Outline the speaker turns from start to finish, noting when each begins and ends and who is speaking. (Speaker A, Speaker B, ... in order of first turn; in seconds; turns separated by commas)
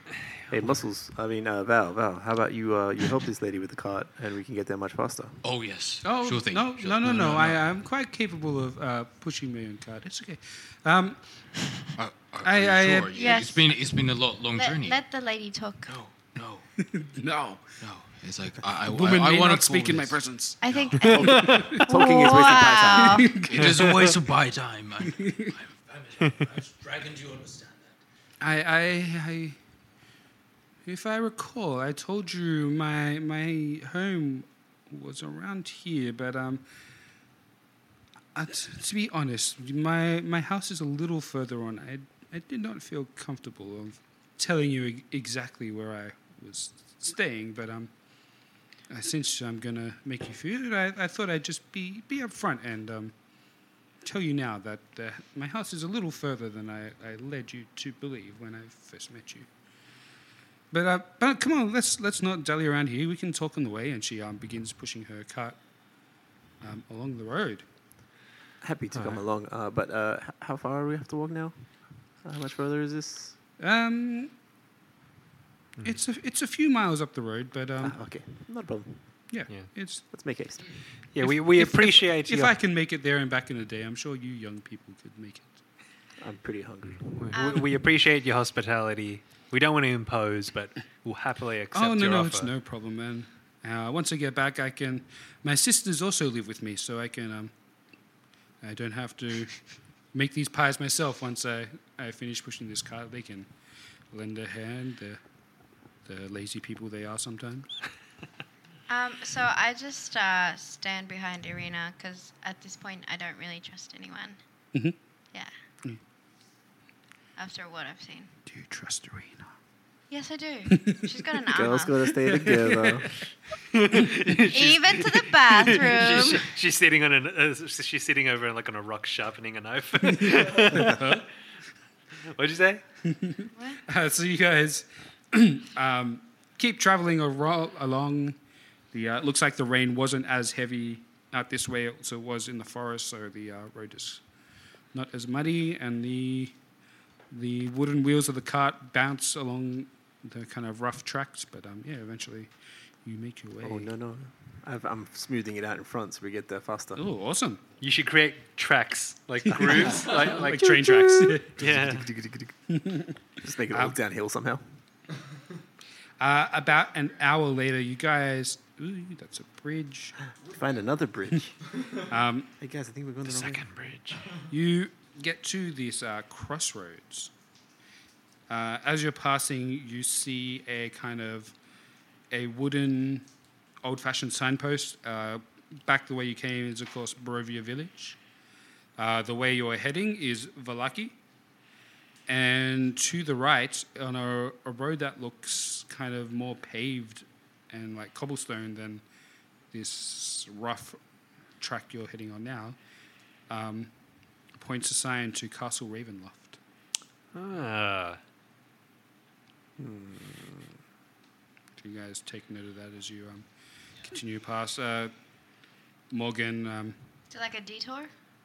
Speaker A: 0.2-0.8, Speaker B: 0.5-5.4, Speaker C: 5.4-7.6, Speaker D: 6.0-11.2, Speaker C: 12.0-15.0, Speaker D: 12.4-13.4, Speaker E: 13.1-13.7, Speaker E: 14.6-15.9, Speaker C: 15.9-16.7, Speaker D: 16.8-17.6, Speaker C: 17.8-21.0, Speaker D: 18.8-20.6, Speaker E: 20.6-23.3, Speaker B: 21.1-23.2, Speaker A: 21.1-21.8, Speaker D: 21.4-21.9, Speaker D: 22.9-24.2, Speaker C: 23.4-28.0, Speaker D: 25.1-25.5, Speaker D: 28.4-29.6, Speaker D: 30.9-36.6, Speaker D: 38.4-47.9, Speaker D: 48.9-53.1, Speaker D: 54.0-59.5, Speaker D: 60.7-65.6, Speaker D: 66.6-67.7, Speaker B: 68.6-71.7, Speaker A: 68.9-69.2, Speaker B: 72.2-73.4, Speaker D: 73.6-74.3, Speaker D: 75.8-78.0, Speaker B: 77.8-79.0, Speaker D: 79.3-80.1, Speaker B: 80.1-80.7, Speaker A: 81.2-82.5, Speaker D: 81.2-85.6, Speaker B: 86.2-87.3, Speaker A: 87.1-92.5, Speaker E: 87.3-87.7, Speaker D: 91.7-97.5, Speaker D: 98.6-99.5, Speaker D: 100.1-103.5, Speaker D: 104.1-105.2, Speaker D: 106.1-107.7, Speaker E: 108.9-114.4, Speaker E: 117.4-118.3, Speaker D: 118.5-119.5, Speaker E: 120.1-122.1, Speaker D: 120.7-121.0, Speaker B: 121.5-123.1, Speaker D: 122.2-123.0, Speaker A: 123.7-131.1, Speaker E: 124.5-126.5, Speaker D: 130.1-131.2, Speaker A: 132.3-132.8, Speaker D: 133.1-138.4, Speaker E: 133.5-133.8, Speaker D: 138.9-144.2, Speaker D: 144.9-146.5, Speaker D: 147.3-152.5, Speaker D: 153.0-153.9, Speaker B: 153.6-157.0, Speaker D: 157.0-157.6, Speaker A: 157.8-160.5, Speaker D: 159.5-161.6, Speaker B: 159.7-162.6, Speaker A: 161.6-162.1, Speaker D: 162.7-163.2, Speaker B: 163.4-164.6, Speaker D: 163.7-164.0, Speaker D: 166.2-170.2, Speaker B: 170.5-171.5, Speaker D: 172.1-172.5, Speaker B: 172.6-173.7, Speaker A: 173.2-174.2, Speaker D: 174.5-177.3, Speaker D: 178.5-181.5, Speaker D: 182.3-183.3, Speaker D: 183.8-188.2, Speaker D: 189.0-191.2, Speaker D: 192.3-199.0, Speaker D: 199.7-201.0, Speaker D: 201.6-202.8, Speaker D: 203.5-203.9, Speaker D: 204.6-206.6, Speaker A: 207.3-208.2, Speaker B: 209.8-210.7, Speaker D: 211.8-213.5, Speaker D: 214.1-215.1, Speaker D: 216.1-217.0, Speaker E: 217.3-218.1